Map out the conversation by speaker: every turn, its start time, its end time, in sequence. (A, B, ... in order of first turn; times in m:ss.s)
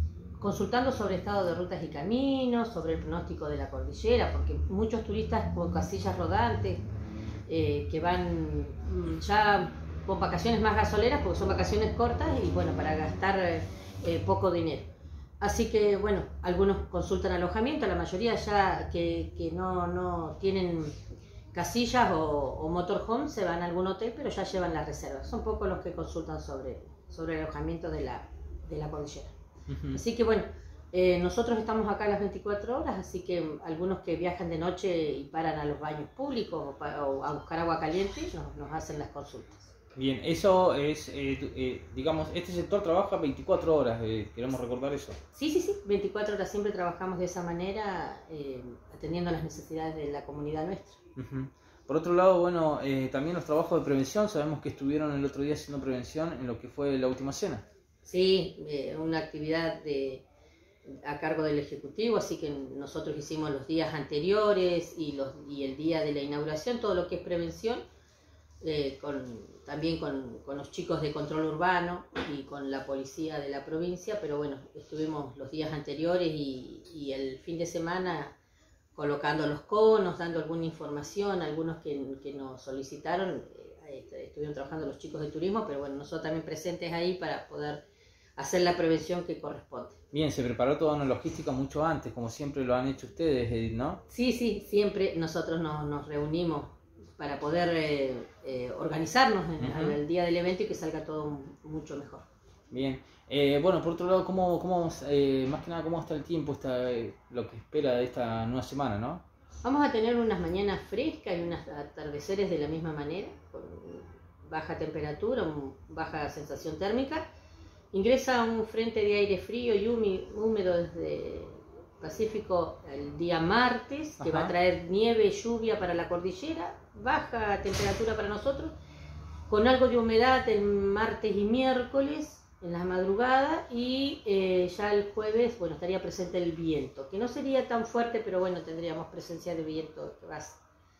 0:00.4-0:06.8 A
0:07.5-0:14.9 A
0:15.4-0:21.0 A
0:21.5-0:29.3 A
0:29.7-0:30.0 B
0:29.9-0:39.7 A
0:39.9-0:45.2 B
0:45.3-0:51.0 A
0:51.2-0:57.6 B
0:58.0-1:00.2 A
1:00.8-1:07.8 A
1:08.6-1:18.3 A
1:18.9-1:27.8 A
1:28.4-1:30.0 A
1:30.1-1:34.0 B
1:34.1-1:42.2 A
1:39.6-1:40.0 B
1:42.7-1:49.2 B
1:49.6-1:57.2 A
1:57.9-2:08.7 A
2:04.2-2:04.5 B
2:09.5-2:20.6 A